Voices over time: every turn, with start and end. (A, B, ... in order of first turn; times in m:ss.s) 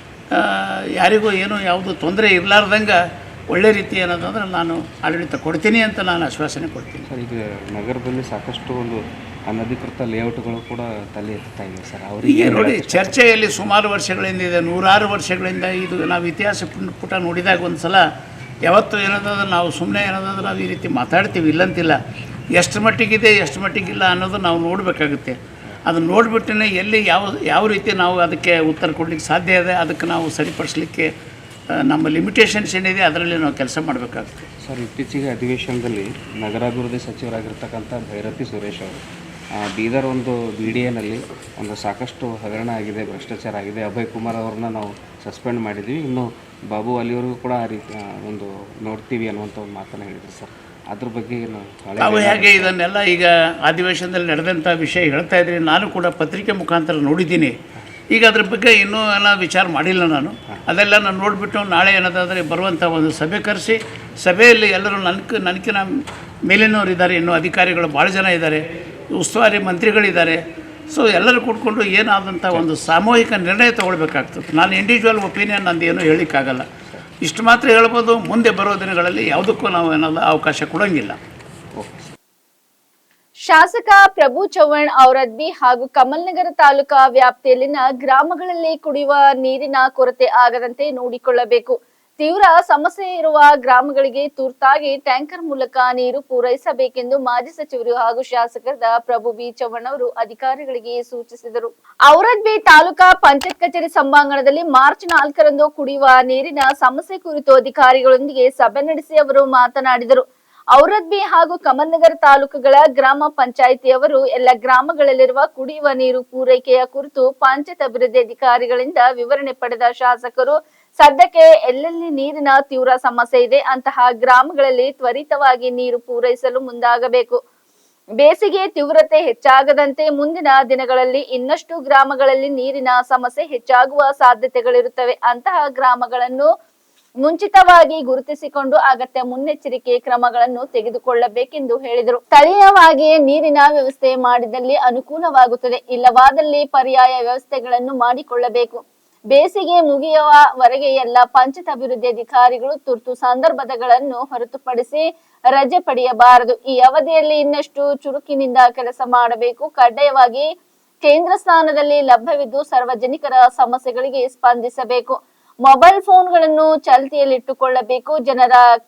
0:00.3-0:07.1 A
0:07.1-0:13.1 B
0:12.3-0:18.1 A
0:18.7-0:22.0 A
0:22.6-0:31.1 A
0:31.7-0:34.5 A
0:34.6-0:39.0 B
0:39.6-0:52.7 B
0:52.0-0:57.6 A
0:58.1-1:05.9 A
1:06.5-1:10.4 A
1:10.9-1:16.7 A
1:17.2-1:21.2 A
1:21.8-1:22.1 B
1:23.5-1:50.2 C
1:50.8-2:07.4 C
2:08.2-2:16.5 C
2:17.2-2:28.8 C
2:29.3-2:40.5 C
2:41.0-2:48.7 C